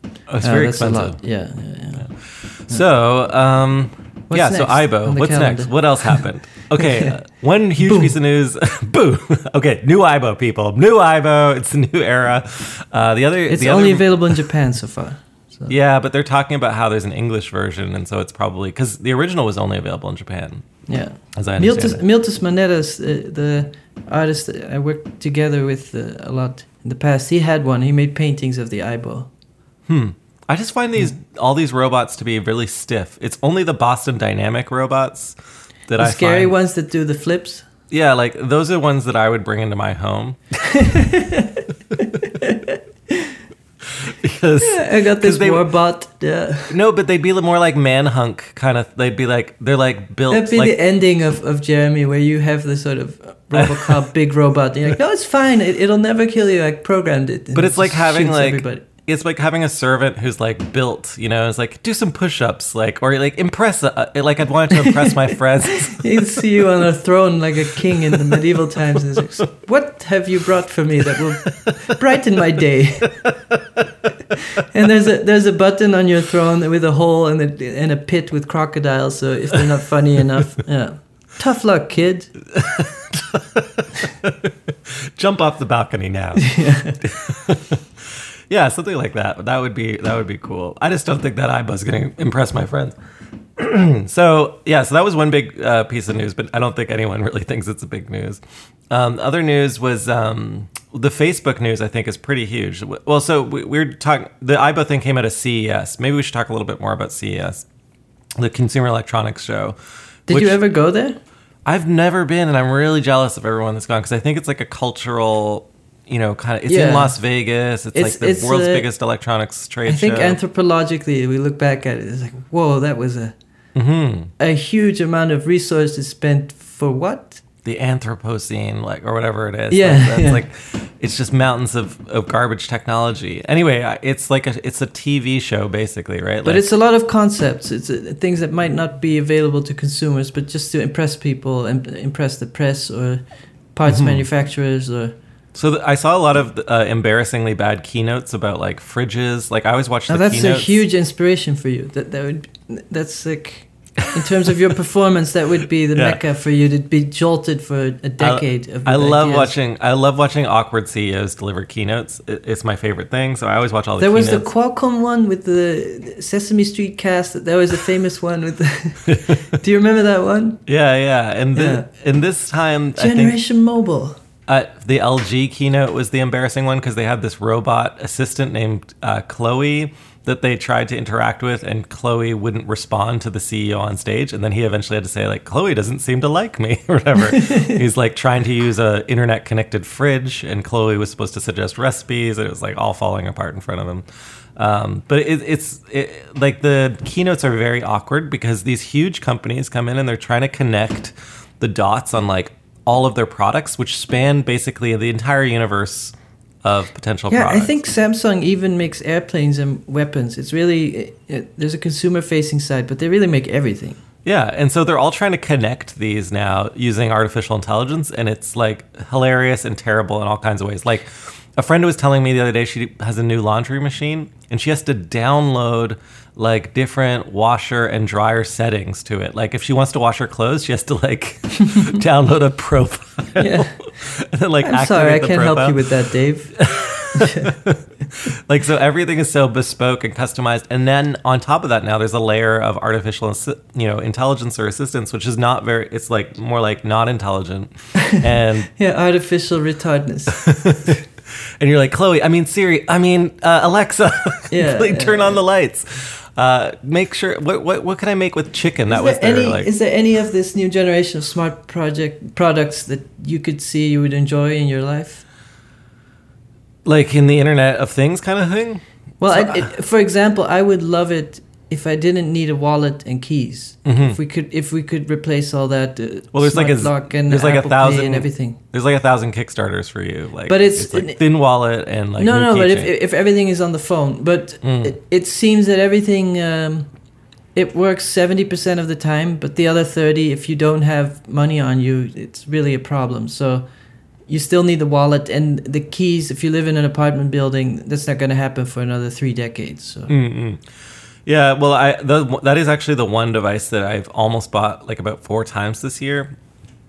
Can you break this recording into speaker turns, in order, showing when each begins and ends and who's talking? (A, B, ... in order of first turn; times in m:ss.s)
0:00.3-0:01.2 A
0:00.4-0:02.1 B
0:02.0-0:14.4 A
0:04.3-0:06.3 B
0:06.8-0:07.1 B
0:07.8-0:08.1 B
0:13.5-0:15.7 B
0:15.7-0:20.7 A
0:20.9-0:29.3 B
0:21.4-0:22.0 A
0:29.9-0:35.4 A
0:35.9-0:36.5 A
0:36.0-0:37.7 B
0:37.9-0:40.9 A
0:40.6-0:43.3 B
0:43.8-0:45.7 A
0:44.6-0:46.7 B
0:46.7-0:50.7 A
0:50.3-0:58.8 B
0:53.6-0:54.0 A
0:57.6-1:06.7 A
1:04.8-1:13.3 B
1:07.8-1:09.2 A
1:11.1-1:11.9 A
1:13.2-1:13.9 A
1:14.5-1:22.3 B
1:22.5-1:33.0 A
1:26.4-1:27.0 B
1:33.6-1:47.7 A
1:48.4-1:50.6 A
1:50.3-1:51.2 B
1:51.6-2:00.4 A
1:56.7-1:57.2 B
1:57.9-1:58.9 B
1:59.9-2:03.4 B
2:03.8-2:04.3 A
2:04.4-2:07.4 B
2:07.6-2:16.7 A
2:09.7-2:10.4 B
2:16.4-2:23.2 B
2:23.7-2:25.2 B
2:23.9-2:24.2 A
2:25.5-2:30.8 A
2:30.1-2:39.5 B
2:35.9-2:36.2 A
2:38.2-2:44.5 A
2:44.0-2:50.6 B
2:49.1-2:49.4 A
2:50.7-2:53.4 A
2:51.5-2:51.9 B
2:53.0-2:54.2 B
2:54.5-3:14.0 A
3:07.3-3:07.8 B
3:14.6-3:27.8 A
3:27.3-3:34.0 B
3:34.2-3:55.8 A
3:53.4-3:53.8 B
3:54.6-3:57.6 B
3:56.6-4:08.7 A
4:08.8-4:10.4 B
4:10.3-4:19.7 A
4:14.5-4:15.4 B
4:18.9-4:25.2 B
4:26.8-4:29.7 A
4:29.2-4:38.6 B
4:33.8-4:34.2 A
4:36.3-4:42.9 A
4:40.5-4:41.2 B
4:42.2-4:46.9 B
4:44.6-4:45.0 A
4:47.6-4:53.6 B
4:54.3-5:00.1 B
5:00.1-5:00.6 A
5:01.3-5:06.3 A